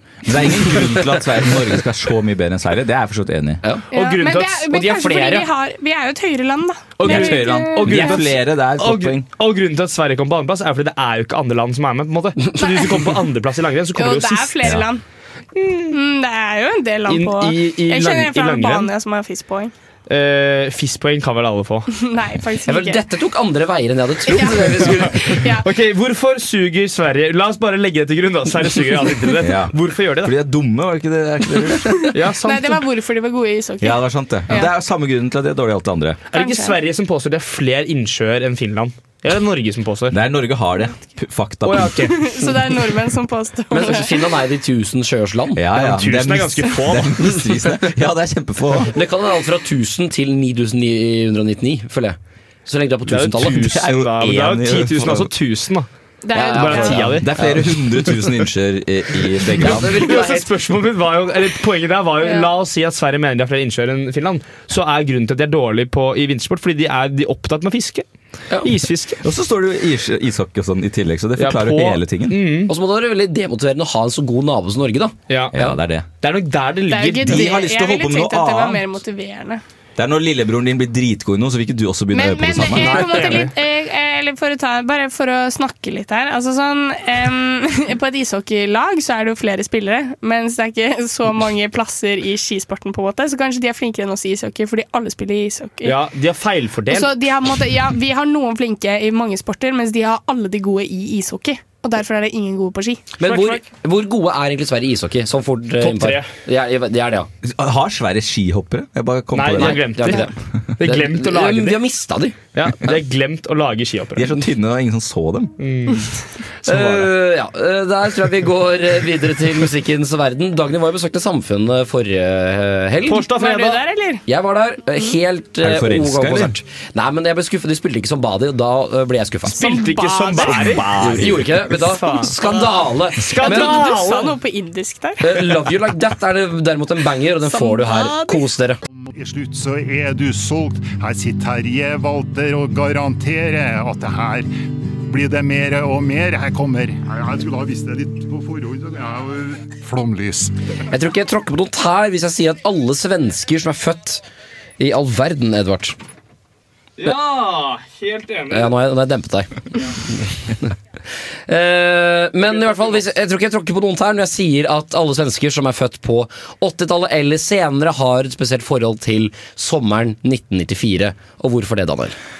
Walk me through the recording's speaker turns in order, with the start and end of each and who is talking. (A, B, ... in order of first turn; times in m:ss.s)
0:00.2-0:03.6 A
0:00.4-0:00.8 B
0:03.9-0:04.7 C
0:03.9-0:08.2 D
0:04.7-0:05.5 B
0:07.0-0:14.8 C
0:07.0-0:09.3 A
0:12.6-0:13.2 D
0:14.0-0:15.0 D
0:15.6-0:16.0 C
0:15.9-0:19.7 D
0:17.1-0:18.9 C
0:20.1-0:21.9 C
0:21.9-0:23.0 D
0:22.7-0:25.4 B
0:24.3-0:25.7 D
0:25.3-0:30.4 C
0:29.4-0:32.1 A
0:32.1-0:32.8 C
0:32.4-0:34.7 D
0:33.8-0:36.2 A
0:36.3-0:40.2 C
0:36.3-0:36.8 D
0:40.1-0:42.2 A
0:41.6-0:42.2 C
0:42.0-0:44.3 D
0:43.7-0:45.6 B
0:45.6-0:48.9 A
0:45.8-0:47.5 C
0:48.9-0:53.8 B
0:53.1-0:57.3 C
0:53.6-0:55.3 A
0:56.2-0:57.0 D
0:56.3-0:57.6 B
0:56.4-1:00.1 A
0:59.6-1:08.0 C
0:59.6-1:00.5 B
1:02.2-1:02.5 D
1:08.6-1:09.2 C
1:09.2-1:12.4 A
1:11.4-1:12.7 C
1:12.7-1:15.8 B
1:15.3-1:15.6 C
1:15.5-1:16.1 A
1:16.2-1:17.6 C
1:16.9-1:19.6 D
1:17.2-1:18.9 A
1:20.0-1:23.2 A
1:22.1-1:36.0 D
1:22.7-1:23.5 C
1:35.8-1:37.1 C
1:36.9-1:43.1 D
1:43.2-1:47.3 B
1:43.2-1:43.6 C
1:45.8-1:46.3 C
1:47.4-1:50.2 A
1:49.3-1:51.8 C
1:49.6-1:52.4 B
1:52.5-1:54.4 C
1:54.2-1:55.6 A
1:55.6-1:56.1 C
1:56.7-1:57.1 C
1:56.7-2:03.2 B
2:03.1-2:03.8 C
2:03.4-2:04.2 D
2:04.3-2:09.6 B
2:05.6-2:06.6 A
2:09.5-2:12.4 C
2:09.6-2:11.2 D
2:10.7-2:11.4 A
2:11.0-2:13.8 B
2:13.2-2:14.4 C
2:13.4-2:15.6 D
2:15.2-2:18.8 B
2:17.5-2:18.5 D
2:18.9-2:24.5 E
2:25.1-2:30.6 E
2:30.9-2:34.2 B
2:34.8-2:36.0 B
2:37.0-2:38.7 C
2:38.5-2:39.5 B
2:41.5-2:52.2 B
2:42.7-2:42.9 C